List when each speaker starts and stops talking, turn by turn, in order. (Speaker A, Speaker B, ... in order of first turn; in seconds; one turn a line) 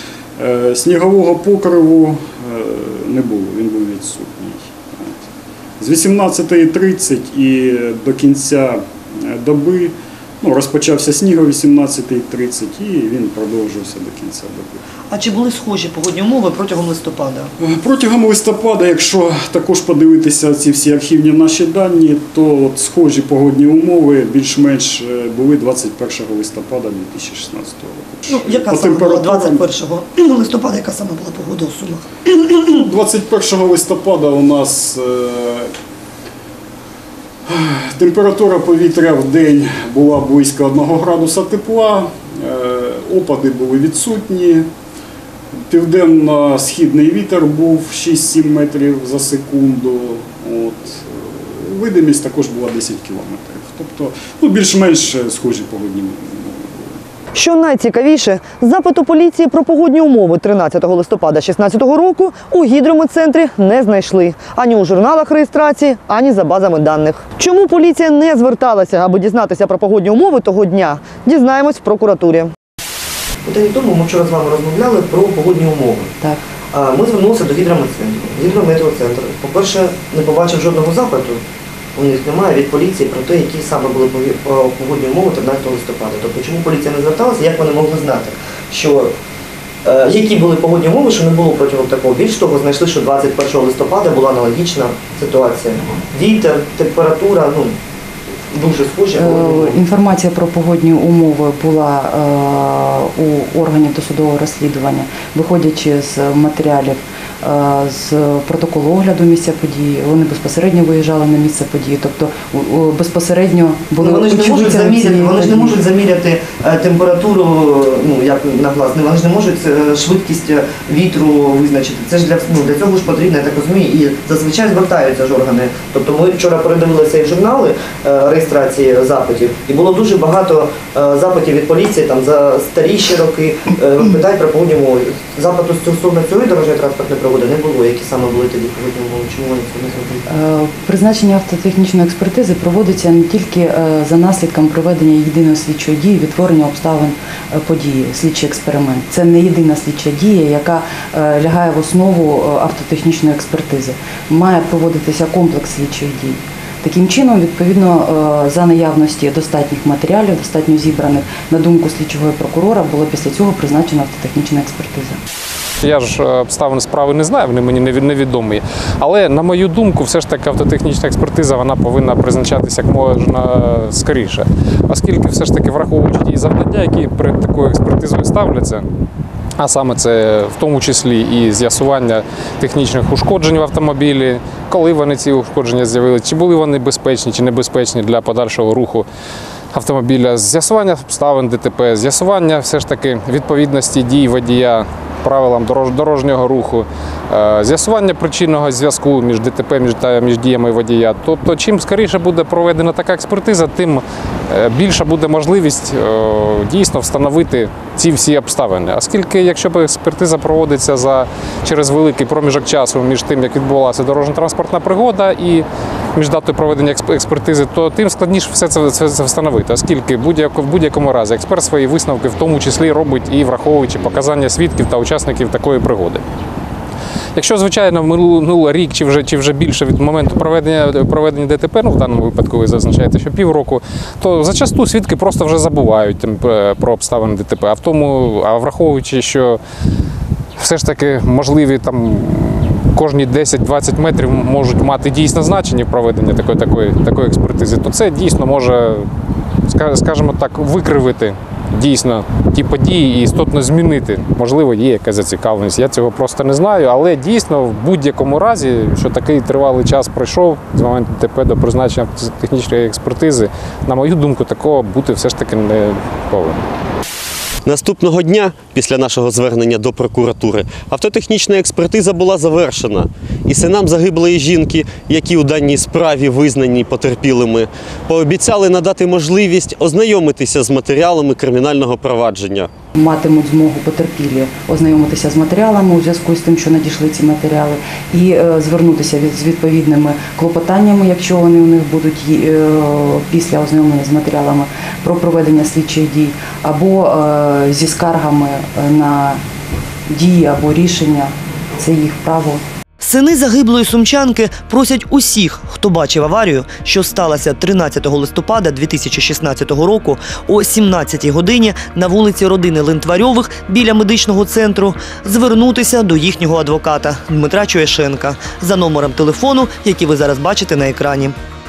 Speaker A: 0.4-5.3
Speaker A: 5.8-14.8
Speaker B: 15.1-17.5
Speaker A: 17.6-29.7
Speaker B: 28.3-32.1
Speaker A: 32.6-35.7
Speaker A: 37.5-44.7
Speaker A: 45.5-57.0
Speaker B: 57.3-72.5
Speaker B: 73.5-76.1
Speaker B: 76.7-81.4
Speaker B: 82.0-89.1
Speaker B: 89.8-97.8
Speaker B: 98.5-99.8
Speaker C: 99.2-115.8
Speaker B: 114.0-140.2
Speaker C: 140.3-165.2
Speaker D: 166.1-178.8
Speaker D: 179.6-189.0
Speaker D: 189.8-204.0
Speaker D: 204.5-215.6
Speaker D: 216.2-226.2
Speaker D: 227.4-239.6
Speaker D: 240.6-249.1
Speaker D: 249.7-266.6
Speaker E: 267.7-282.7
Speaker C: 282.9-299.4
Speaker C: 300.1-302.6
Speaker B: 303.0-321.4